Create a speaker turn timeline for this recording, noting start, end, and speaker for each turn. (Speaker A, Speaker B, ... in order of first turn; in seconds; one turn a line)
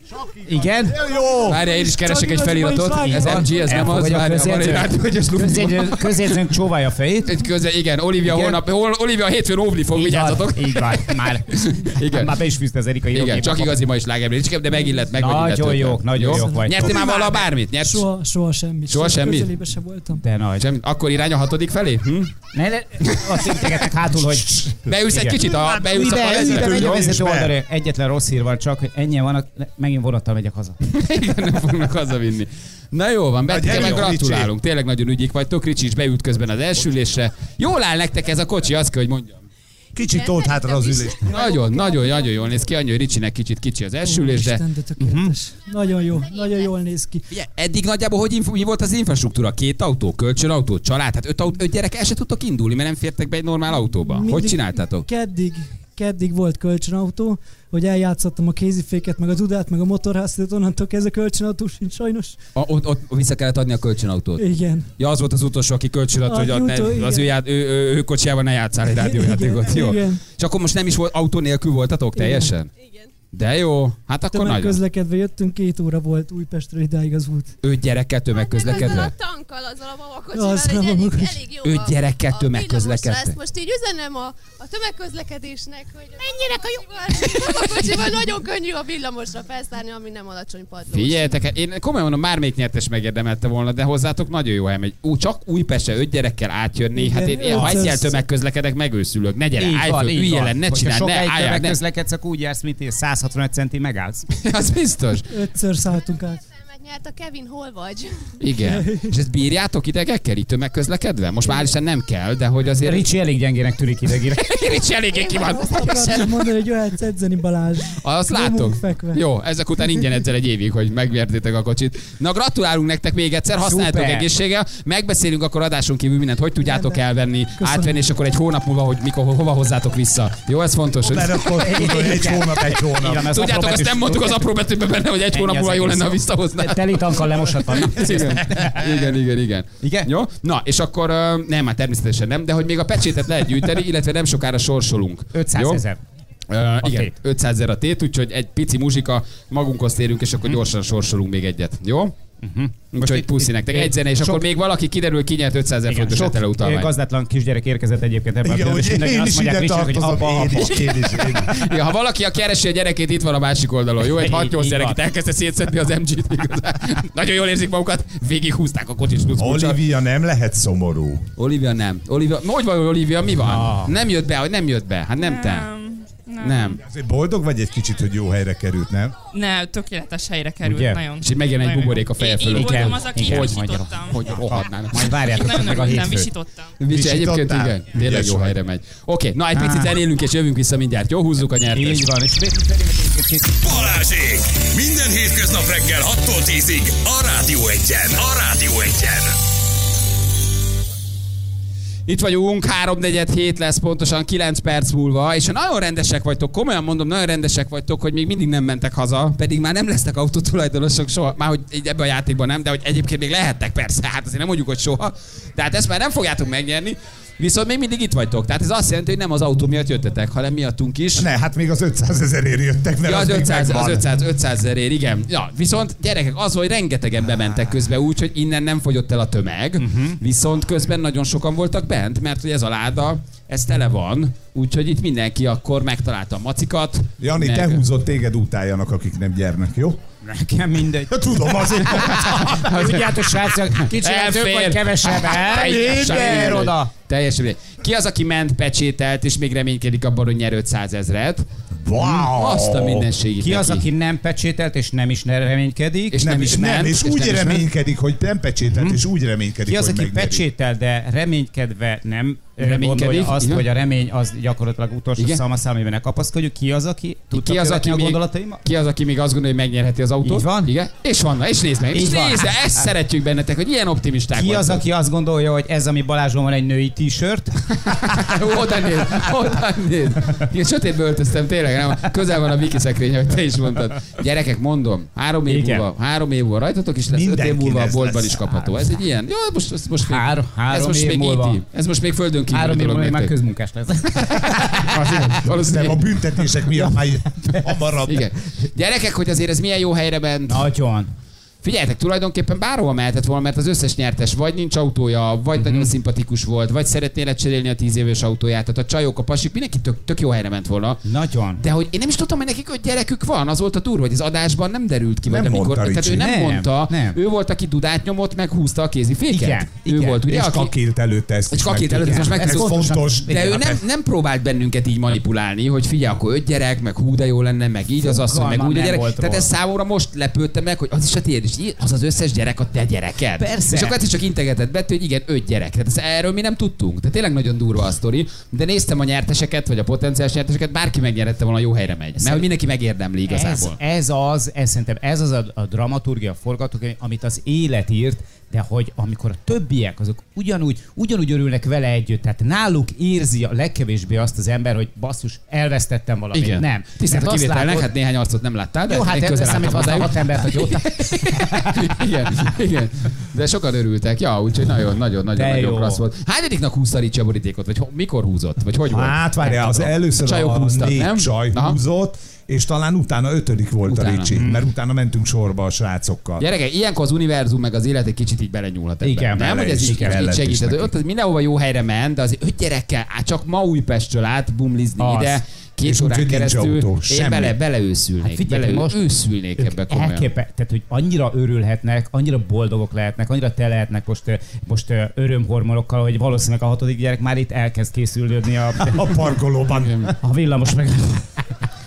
Speaker A: 0.1-1.6
Speaker B: 0.5-1.0
Speaker C: 1.5-6.4
Speaker D: 1.5-3.8
Speaker B: 3.1-7.4
Speaker C: 7.2-12.3
Speaker B: 8.2-8.6
Speaker B: 9.9-13.8
Speaker C: 13.1-18.1
Speaker B: 15.1-17.0
Speaker D: 16.3-20.2
Speaker C: 18.9-19.6
Speaker B: 20.2-20.6
Speaker C: 20.6-22.3
Speaker B: 22.5-24.5
Speaker C: 23.0-23.5
Speaker A: 24.3-24.8
Speaker C: 24.9-27.1
Speaker B: 25.1-30.8
Speaker A: 25.4-27.5
Speaker C: 30.8-39.4
Speaker A: 33.5-34.5
Speaker A: 40.0-41.3
Speaker E: 40.0-42.6
Speaker C: 41.2-44.6
Speaker D: 44.0-47.2
Speaker B: 45.0-45.4
Speaker C: 47.3-55.1
Speaker D: 53.8-62.4
Speaker C: 62.6-72.7
Speaker D: 64.4-64.9
Speaker D: 66.2-67.3
Speaker D: 68.9-70.2
Speaker D: 72.2-72.5
Speaker E: 72.7-73.1
Speaker C: 73.3-74.8
Speaker D: 74.3-77.5
Speaker C: 77.6-79.1
Speaker E: 78.3-91.4
Speaker D: 80.3-81.5
Speaker C: 81.6-83.4
Speaker C: 87.3-88.0
Speaker C: 90.9-101.8
Speaker D: 96.9-98.2
Speaker B: 97.5-97.8
Speaker B: 99.6-104.3
Speaker C: 104.3-105.3
Speaker D: 105.3-106.4
Speaker E: 106.6-108.3
Speaker C: 108.4-113.1
Speaker D: 108.6-109.2
Speaker B: 112.8-114.4
Speaker C: 114.3-116.5
Speaker D: 115.5-119.2
Speaker C: 118.0-131.5
Speaker B: 123.6-124.3
Speaker D: 126.6-127.0
Speaker D: 127.6-128.0
Speaker A: 131.1-133.3
Speaker B: 131.5-134.4
Speaker C: 133.2-145.8
Speaker B: 135.3-138.8
Speaker B: 139.8-140.1
Speaker B: 145.3-146.0
Speaker C: 146.5-152.2
Speaker B: 146.8-147.1
Speaker B: 152.4-154.4
Speaker C: 152.9-156.9
Speaker B: 155.9-161.3
Speaker A: 158.4-161.6
Speaker C: 161.4-169.8
Speaker B: 164.1-165.0
Speaker A: 169.4-171.3
Speaker C: 171.4-175.7
Speaker B: 173.4-173.9
Speaker F: 175.2-176.8
Speaker C: 176.4-176.8
Speaker A: 176.8-179.1
Speaker F: 179.3-184.3
Speaker B: 180.6-181.0
Speaker C: 181.2-185.9
Speaker B: 182.5-186.3
Speaker F: 185.3-186.8
Speaker C: 186.8-192.1
Speaker A: 186.9-188.6
Speaker B: 189.6-189.9
Speaker B: 191.7-193.9
Speaker G: 193.6-199.4
Speaker C: 202.1-221.3
Speaker A: 221.2-224.1
Speaker C: 223.0-237.8
Speaker B: 229.8-230.2
Speaker A: 237.2-240.0
Speaker B: 240.2-246.9
Speaker A: 241.1-242.6
Speaker C: 241.9-251.5
Speaker A: 245.6-246.7
Speaker A: 251.8-253.1
Speaker C: 252.3-253.9
Speaker B: 253.4-256.8
Speaker C: 256.1-257.7
Speaker A: 256.2-260.4
Speaker B: 259.7-268.6
Speaker C: 262.6-263.6
Speaker C: 265.2-265.4
Speaker C: 267.3-274.8
Speaker B: 270.2-270.7
Speaker B: 271.9-272.6
Speaker B: 274.4-277.6
Speaker C: 277.8-293.3
Speaker B: 285.5-285.9
Speaker A: 287.1-288.5
Speaker B: 290.0-291.6
Speaker B: 292.5-295.4
Speaker C: 294.3-296.1
Speaker A: 295.5-298.3
Speaker C: 298.1-300.7
Speaker B: 300.5-301.1
Speaker C: 301.6-311.0
Speaker B: 305.6-305.9
Speaker B: 311.0-311.6
Speaker C: 311.6-320.7
Speaker A: 315.3-316.2
Speaker B: 316.1-317.2
Speaker B: 319.3-320.2
Speaker A: 320.3-323.8
Speaker C: 321.5-343.8
Speaker B: 321.9-323.6
Speaker B: 328.0-329.5
Speaker B: 333.4-334.0
Speaker B: 342.2-342.4
Speaker B: 343.3-357.9
Speaker C: 356.3-371.8
Speaker B: 358.9-361.8
Speaker B: 365.3-366.0
Speaker A: 368.9-376.4
Speaker C: 373.9-374.4
Speaker B: 374.4-374.6
Speaker C: 376.4-390.3
Speaker B: 379.0-380.2
Speaker A: 379.4-380.9
Speaker B: 385.0-385.4
Speaker A: 385.8-387.6
Speaker B: 388.2-389.0
Speaker B: 389.6-399.1
Speaker A: 398.8-400.1
Speaker C: 399.7-400.1
Speaker B: 400.2-401.5